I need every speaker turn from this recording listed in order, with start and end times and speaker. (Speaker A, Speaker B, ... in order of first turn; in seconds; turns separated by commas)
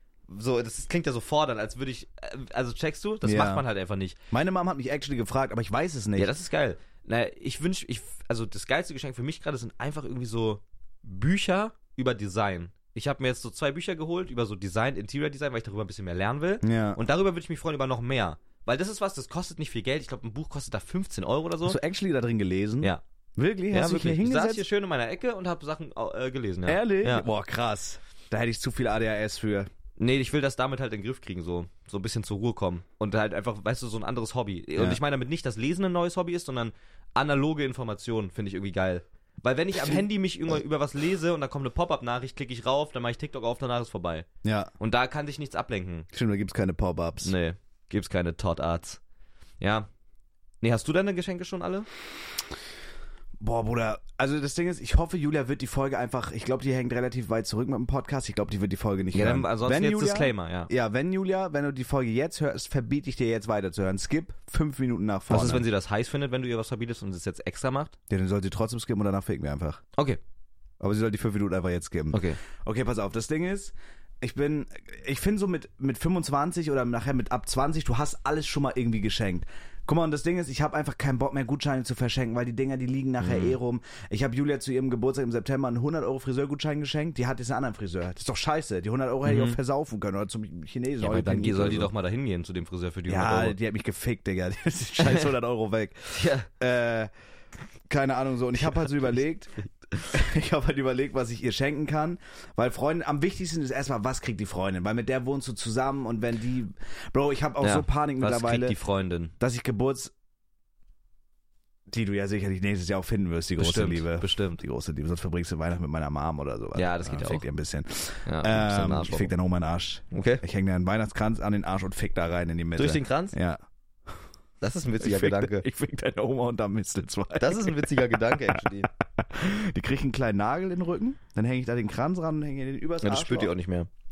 Speaker A: 0.3-4.2, Speaker B: 3.2-3.6, Speaker B: 4.3-6.3, Speaker A: 6.2-21.8, Speaker B: 16.6-17.0, Speaker B: 21.6-24.6, Speaker A: 23.7-27.3, Speaker B: 26.7-29.7, Speaker A: 30.0-44.3, Speaker B: 39.8-40.0, Speaker B: 44.4-44.7, Speaker A: 44.8-46.1, Speaker B: 46.1-47.3, Speaker A: 47.2-49.0, Speaker A: 49.6-49.9, Speaker A: 50.6-51.9, Speaker B: 53.4-65.7, Speaker A: 59.1-60.7, Speaker A: 65.3-67.9, Speaker B: 68.1-69.8, Speaker B: 70.8-91.9, Speaker A: 72.1-72.4, Speaker A: 83.2-83.6, Speaker A: 89.2-89.6, Speaker A: 91.0-93.6, Speaker B: 93.1-97.1, Speaker A: 95.0-95.3, Speaker A: 96.1-96.5, Speaker B: 97.9-99.5, Speaker B: 100.1-108.8, Speaker A: 107.6-109.3, Speaker B: 109.4-110.1, Speaker B: 111.9-124.1, Speaker A: 113.6-114.6, Speaker A: 116.8-117.5, Speaker A: 118.3-119.3, Speaker A: 120.1-120.4, Speaker A: 122.8-123.4, Speaker A: 124.6-125.7, Speaker B: 125.0-133.5, Speaker A: 127.4-128.9, Speaker A: 133.0-133.9